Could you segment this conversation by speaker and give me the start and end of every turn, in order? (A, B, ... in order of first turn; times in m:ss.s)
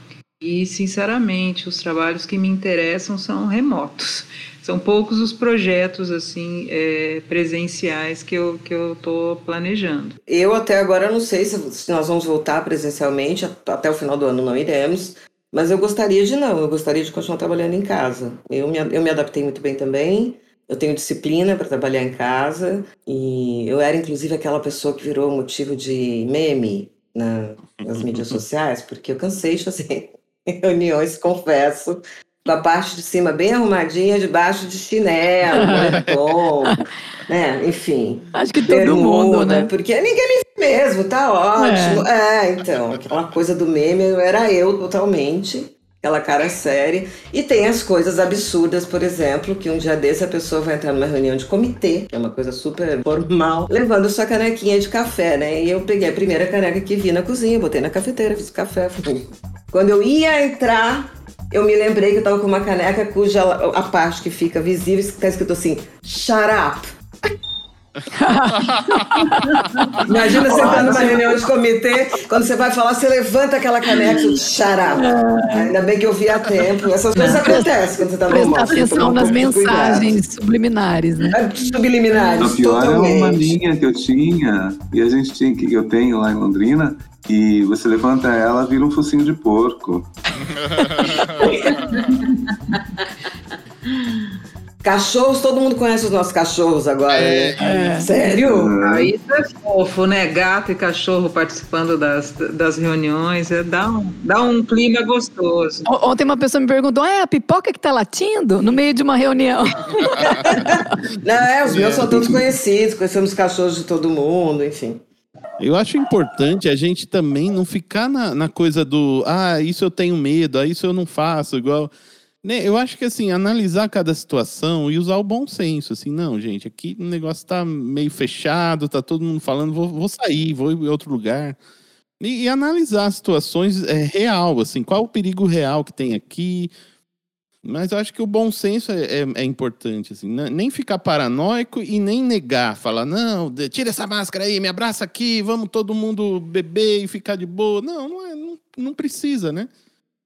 0:00.4-0:10.2 A
0:10.3-1:06.9 B
0:27.8-0:28.4 C
0:35.5-0:36.0 D
0:35.6-0:36.2 C
0:38.3-0:39.7 D
0:41.6-0:42.1 D
1:08.1-1:09.8 D
1:08.5-1:11.0 C
1:09.5-1:09.8 A
1:10.0-1:20.2 B
1:10.5-1:11.2 D
1:10.6-1:11.0 A
1:14.9-1:15.7 D
1:17.2-1:17.7 D
1:18.3-1:21.4 D
1:21.3-1:23.6 B
1:22.4-1:30.1 E
1:30.4-1:32.0 C
1:31.5-1:31.8 B
1:31.9-1:32.3 A
1:34.8-1:38.7 B
1:37.1-1:38.0 C
1:37.6-1:38.1 D
1:38.4-1:39.1 E
1:38.8-1:45.8 A
1:45.8-1:51.0 D
1:50.1-1:50.8 C
1:50.5-1:55.0 B
1:51.6-1:52.2 C
1:52.1-1:52.4 E
1:55.6-2:01.9 C
2:02.4-2:11.6 C
2:12.2-2:16.7 C
2:17.6-2:29.7 C